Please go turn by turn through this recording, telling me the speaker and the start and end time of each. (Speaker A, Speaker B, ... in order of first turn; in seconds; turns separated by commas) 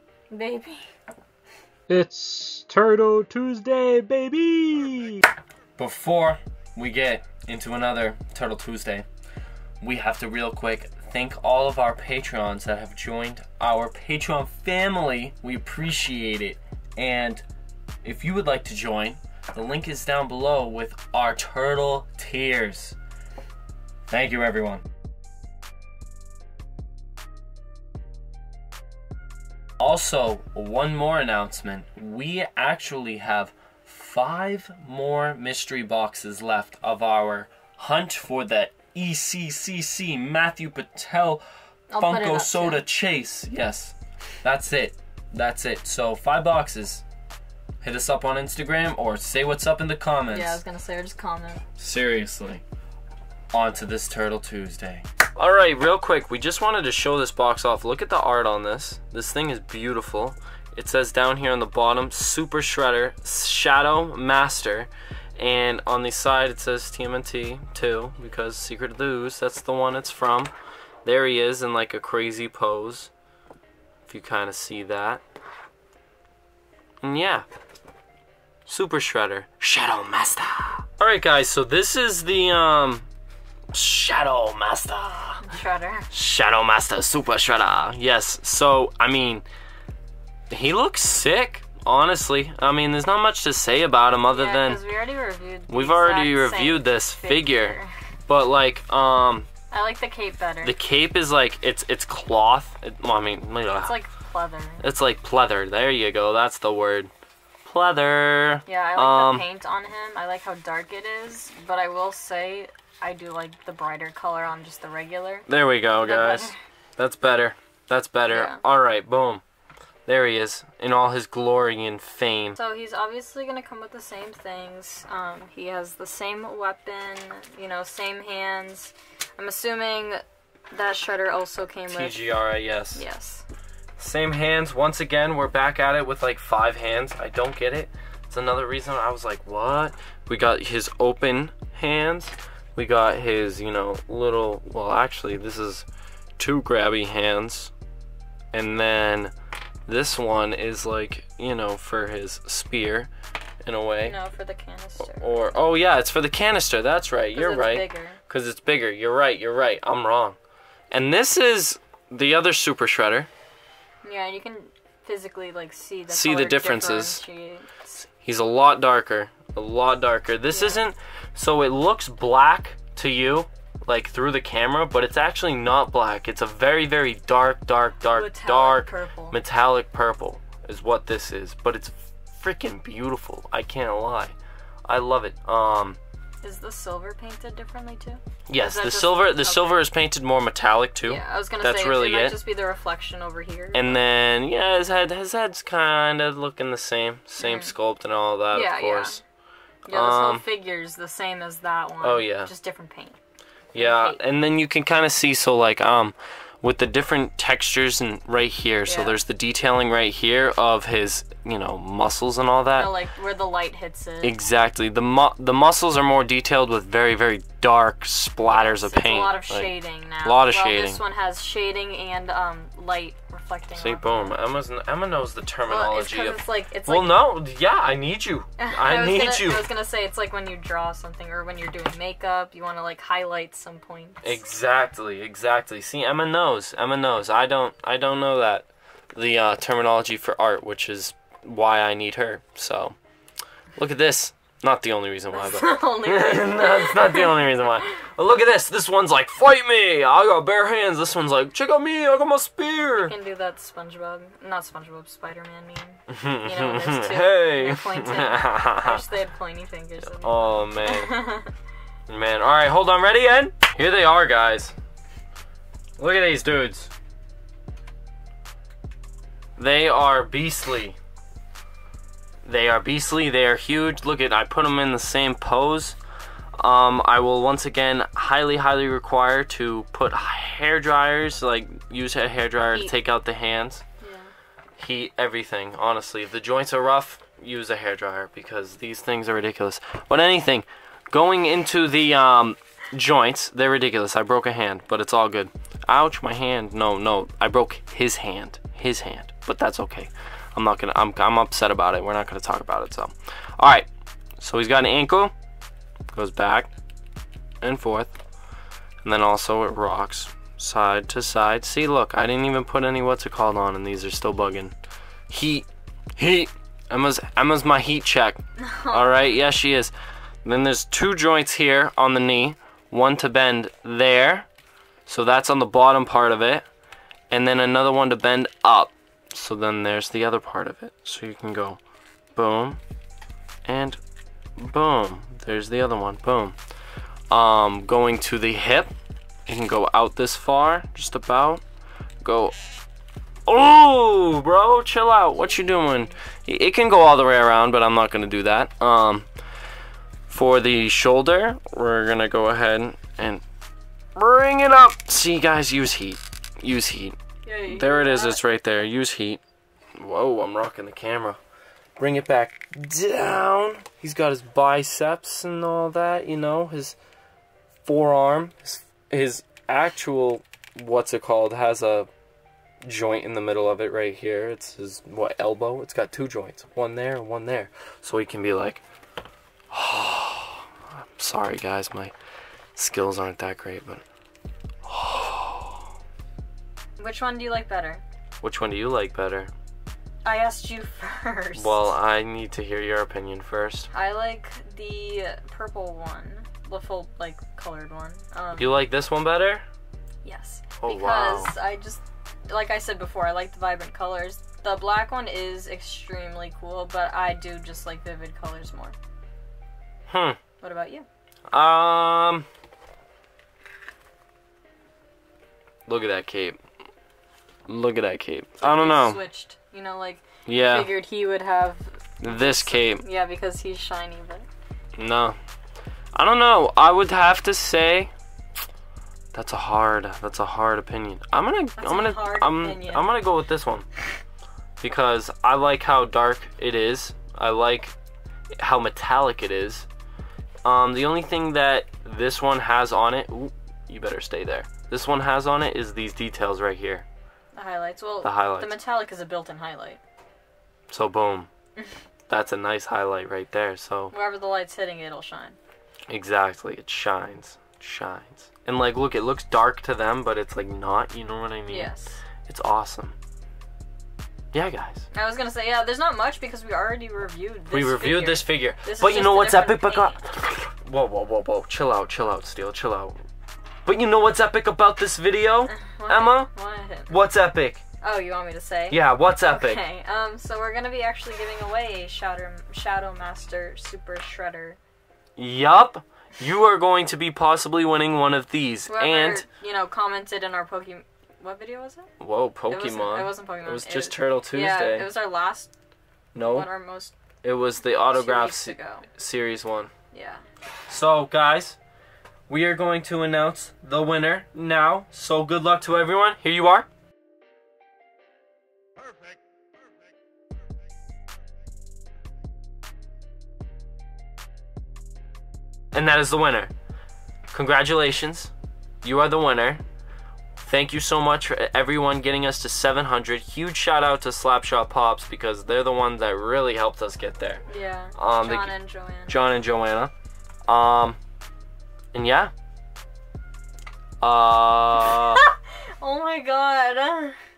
Speaker A: 0.3-0.8, Speaker B: 1.9-5.2, Speaker C: 5.8-9.1, Speaker C: 9.8-17.4, Speaker C: 18.0-23.0, Speaker C: 24.1-24.8, Speaker C: 29.8-41.4, Speaker A: 41.9-42.9, Speaker C: 42.0-47.0, Speaker C: 47.8-50.6, Speaker A: 50.3-51.6, Speaker C: 51.8-52.6, Speaker C: 53.5-70.5, Speaker C: 71.0-73.1, Speaker C: 74.1-75.2, Speaker C: 77.0-77.5, Speaker C: 78.7-83.1, Speaker C: 83.7-85.5, Speaker A: 85.4-86.1, Speaker C: 86.1-89.5, Speaker C: 90.5-94.8, Speaker A: 94.3-97.9, Speaker C: 95.7-99.5, Speaker A: 99.7-100.8, Speaker C: 100.6-104.0, Speaker A: 103.8-104.8, Speaker C: 104.8-107.1, Speaker C: 107.7-109.5, Speaker A: 108.7-115.5, Speaker C: 115.5-119.4, Speaker A: 116.0-116.6, Speaker A: 118.3-118.6, Speaker C: 120.1-122.6, Speaker A: 122.6-132.3, Speaker C: 131.9-133.0, Speaker A: 132.9-133.4, Speaker C: 134.0-145.9, Speaker C: 146.4-147.7, Speaker C: 148.5-149.3, Speaker C: 149.9-153.1, Speaker C: 153.6-154.2, Speaker A: 154.0-155.6, Speaker C: 155.0-160.4, Speaker A: 157.3-158.2, Speaker C: 160.9-163.3, Speaker A: 164.0-168.1, Speaker C: 166.1-167.2, Speaker C: 168.2-184.4, Speaker A: 170.5-170.8, Speaker A: 178.1-179.4, Speaker C: 184.9-186.0, Speaker A: 186.4-189.9, Speaker C: 188.5-192.4, Speaker A: 191.1-194.0, Speaker C: 193.7-199.2, Speaker A: 197.4-197.8, Speaker A: 198.5-199.2, Speaker A: 199.9-203.2, Speaker C: 199.9-200.4, Speaker C: 202.0-202.5, Speaker C: 203.7-212.9, Speaker A: 203.8-204.2, Speaker A: 208.9-209.2, Speaker A: 212.8-214.4, Speaker C: 214.2-221.0, Speaker A: 218.6-224.4, Speaker C: 223.8-229.7, Speaker A: 225.7-227.3, Speaker A: 228.6-234.4, Speaker C: 234.2-243.0, Speaker C: 243.8-253.2, Speaker A: 245.3-247.7, Speaker A: 253.0-261.5, Speaker C: 256.1-259.0, Speaker C: 260.1-261.2, Speaker C: 262.1-264.8, Speaker C: 266.0-266.9, Speaker C: 269.6-271.0, Speaker C: 272.4-276.0, Speaker C: 276.6-283.8, Speaker A: 284.0-284.3, Speaker C: 284.8-305.3, Speaker C: 306.1-306.7, Speaker C: 307.6-308.2, Speaker C: 309.0-314.7, Speaker C: 315.3-315.7, Speaker C: 316.2-319.9, Speaker A: 318.6-319.5, Speaker C: 320.4-324.5, Speaker C: 325.1-326.6, Speaker C: 327.3-331.8, Speaker C: 332.4-332.8, Speaker C: 333.7-334.0, Speaker C: 334.6-336.6, Speaker C: 337.3-338.9, Speaker C: 339.5-341.6, Speaker C: 342.2-342.6, Speaker C: 343.5-349.3, Speaker A: 345.4-346.2, Speaker C: 350.3-353.4, Speaker C: 354.2-359.4, Speaker A: 357.4-358.4, Speaker C: 360.0-361.4, Speaker C: 362.0-367.0, Speaker C: 367.9-372.1, Speaker C: 372.8-378.8, Speaker C: 379.7-380.6, Speaker C: 381.2-382.1, Speaker C: 382.8-384.0, Speaker C: 384.9-385.8, Speaker A: 387.0-388.0, Speaker C: 388.4-389.5, Speaker A: 390.2-391.9, Speaker C: 391.6-393.9, Speaker A: 393.9-398.7, Speaker C: 398.6-399.6, Speaker A: 400.2-409.0, Speaker C: 400.8-401.5, Speaker C: 410.1-410.4, Speaker A: 410.6-411.1, Speaker C: 411.5-412.5, Speaker C: 415.9-416.6, Speaker C: 417.7-419.2, Speaker A: 418.6-424.5, Speaker C: 420.5-420.9, Speaker C: 422.2-423.0, Speaker C: 425.0-425.4, Speaker C: 426.1-428.1, Speaker C: 429.3-433.9, Speaker A: 431.8-433.1, Speaker C: 434.8-437.9, Speaker C: 438.6-439.9, Speaker C: 440.6-447.1, Speaker A: 447.6-450.0, Speaker C: 448.2-448.8, Speaker C: 450.9-451.5, Speaker C: 452.3-454.1, Speaker A: 454.1-455.6, Speaker C: 456.1-461.9, Speaker A: 461.7-462.2, Speaker C: 462.4-463.2, Speaker C: 464.5-465.1, Speaker A: 465.1-470.2, Speaker C: 467.7-473.2, Speaker C: 473.9-476.5, Speaker A: 475.7-477.2, Speaker C: 477.1-477.8, Speaker A: 478.0-484.8, Speaker C: 478.9-479.8, Speaker C: 485.4-489.4, Speaker A: 488.9-492.1, Speaker C: 492.2-495.1, Speaker A: 492.7-495.7, Speaker C: 496.3-496.7, Speaker A: 496.4-497.2, Speaker C: 497.4-499.9, Speaker A: 498.1-499.1, Speaker A: 500.1-500.4, Speaker C: 500.9-501.8, Speaker C: 502.5-506.9, Speaker C: 515.9-516.7, Speaker C: 517.5-518.5, Speaker C: 519.0-519.8, Speaker C: 520.6-527.6, Speaker A: 527.7-529.4, Speaker C: 528.2-528.8, Speaker C: 529.3-530.1, Speaker C: 530.7-531.2, Speaker C: 532.1-532.5, Speaker C: 534.2-535.4, Speaker A: 535.1-537.4